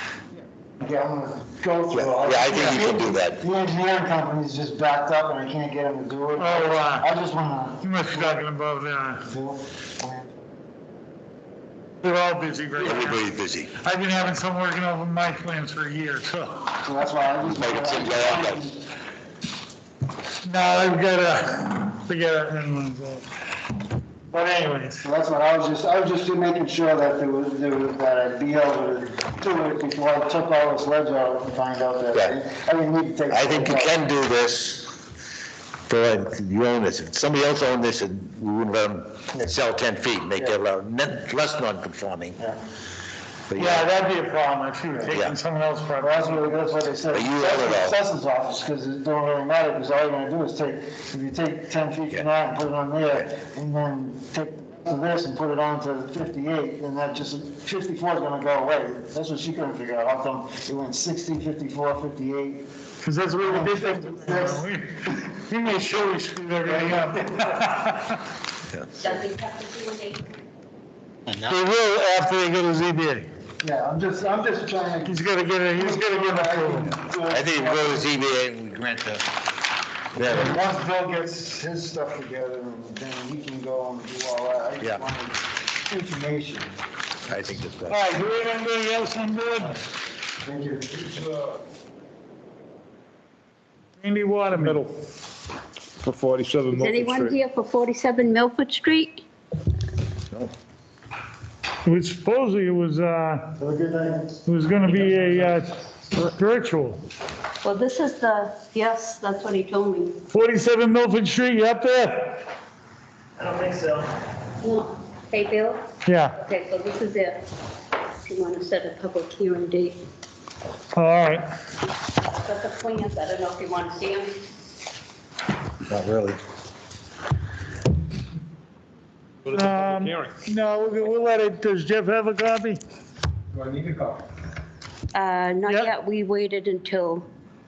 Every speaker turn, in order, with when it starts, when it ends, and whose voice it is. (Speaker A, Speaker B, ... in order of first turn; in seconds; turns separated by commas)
Speaker A: 0.3-8.4, Speaker B: 1.9-3.4, Speaker C: 2.5-2.8, Speaker C: 6.3-7.1, Speaker C: 7.8-9.3, Speaker A: 9.3-10.3, Speaker C: 12.0-16.8, Speaker B: 12.8-13.7, Speaker A: 16.8-18.8, Speaker B: 17.4-18.6, Speaker C: 20.4-23.3, Speaker C: 24.3-25.1, Speaker A: 25.0-33.9, Speaker B: 33.3-35.0, Speaker B: 35.9-42.4, Speaker B: 43.5-43.9, Speaker C: 43.5-46.7, Speaker B: 45.1-45.4, Speaker A: 46.0-62.7, Speaker B: 47.1-48.0, Speaker C: 63.0-68.2, Speaker A: 63.4-64.6, Speaker A: 66.6-67.6, Speaker D: 69.0-70.3, Speaker C: 71.4-73.3, Speaker A: 73.6-75.2, Speaker C: 75.0-77.0, Speaker A: 75.7-78.0, Speaker B: 77.3-79.2, Speaker B: 80.1-80.6, Speaker A: 80.2-86.7, Speaker B: 87.3-88.0, Speaker C: 87.9-89.8, Speaker A: 90.4-91.5, Speaker C: 94.0-94.9, Speaker E: 94.5-94.9, Speaker E: 96.0-97.4, Speaker D: 96.7-99.2, Speaker C: 101.8-103.6, Speaker A: 103.6-104.3, Speaker C: 104.4-107.0, Speaker D: 107.6-110.2, Speaker C: 110.3-112.4, Speaker A: 113.5-113.8, Speaker D: 114.6-117.5, Speaker C: 116.0-116.4, Speaker D: 118.2-120.0, Speaker C: 120.9-121.5, Speaker D: 122.1-124.4, Speaker B: 125.9-126.4, Speaker E: 129.4-130.3, Speaker C: 129.5-132.8, Speaker A: 133.5-134.2, Speaker D: 135.1-137.3, Speaker C: 135.7-135.9